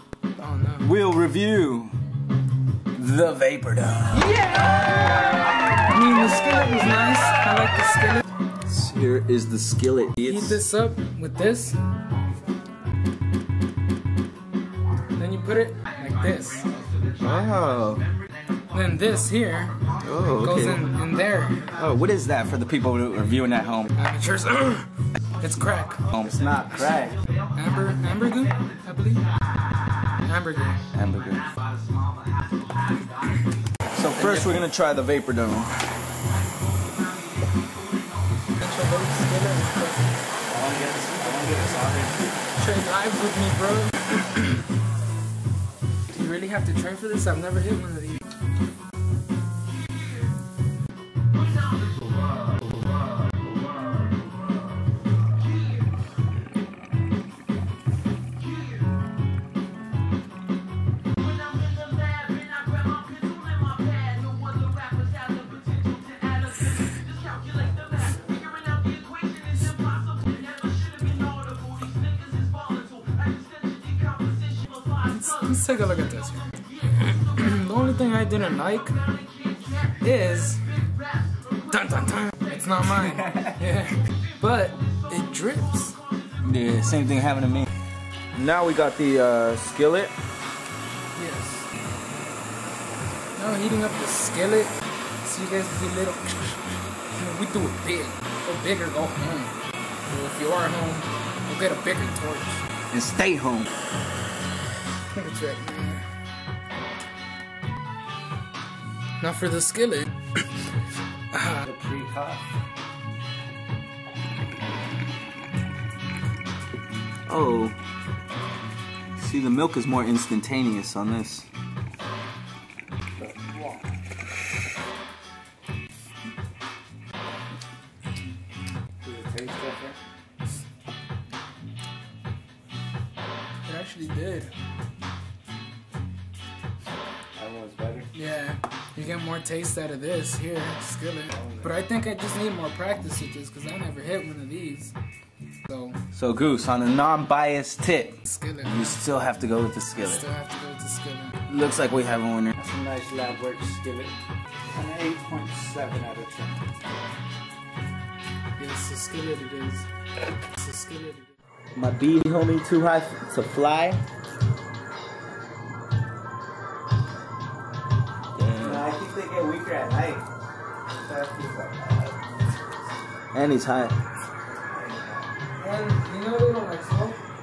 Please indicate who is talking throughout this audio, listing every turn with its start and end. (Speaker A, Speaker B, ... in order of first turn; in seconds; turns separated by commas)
Speaker A: 0.4-0.9, Speaker B: 0.8-1.9, Speaker B: 2.9-4.4, Speaker A: 4.1-8.2, Speaker B: 8.7-10.6, Speaker A: 10.3-11.8, Speaker A: 15.2-16.7, Speaker B: 17.2-18.1, Speaker A: 18.7-19.8, Speaker B: 20.0-20.8, Speaker A: 20.4-21.7, Speaker B: 21.7-23.9, Speaker A: 23.9-24.9, Speaker A: 25.4-26.0, Speaker B: 26.1-27.2, Speaker A: 27.6-29.3, Speaker A: 30.2-30.8, Speaker B: 30.9-31.5, Speaker B: 33.9-35.9, Speaker A: 34.2-34.6, Speaker A: 38.6-40.1, Speaker B: 40.5-42.4, Speaker A: 42.6-44.6, Speaker A: 46.1-48.2, Speaker A: 75.0-79.0, Speaker A: 79.9-80.8, Speaker A: 81.7-86.0, Speaker B: 86.4-87.7, Speaker B: 88.3-90.2, Speaker A: 91.2-91.7, Speaker A: 93.3-99.5, Speaker A: 100.1-102.6, Speaker B: 102.9-103.7, Speaker A: 105.1-106.0, Speaker A: 109.2-110.4, Speaker A: 111.3-111.7, Speaker C: 111.6-112.4, Speaker B: 117.3-117.8, Speaker B: 119.2-121.5, Speaker C: 123.2-123.9, Speaker C: 129.0-130.0, Speaker A: 133.7-134.5, Speaker C: 137.3-138.1, Speaker A: 138.1-144.9, Speaker C: 141.3-141.7, Speaker A: 145.7-146.0, Speaker B: 146.1-150.2, Speaker A: 148.2-149.0, Speaker A: 150.0-151.4, Speaker B: 151.5-152.6, Speaker C: 152.6-154.2, Speaker C: 154.7-156.6, Speaker A: 158.6-159.9, Speaker A: 160.5-161.3, Speaker B: 161.7-164.0, Speaker B: 168.4-168.9, Speaker C: 168.6-170.2, Speaker C: 170.9-172.2, Speaker B: 173.3-174.0, Speaker C: 174.5-175.3, Speaker A: 175.6-177.2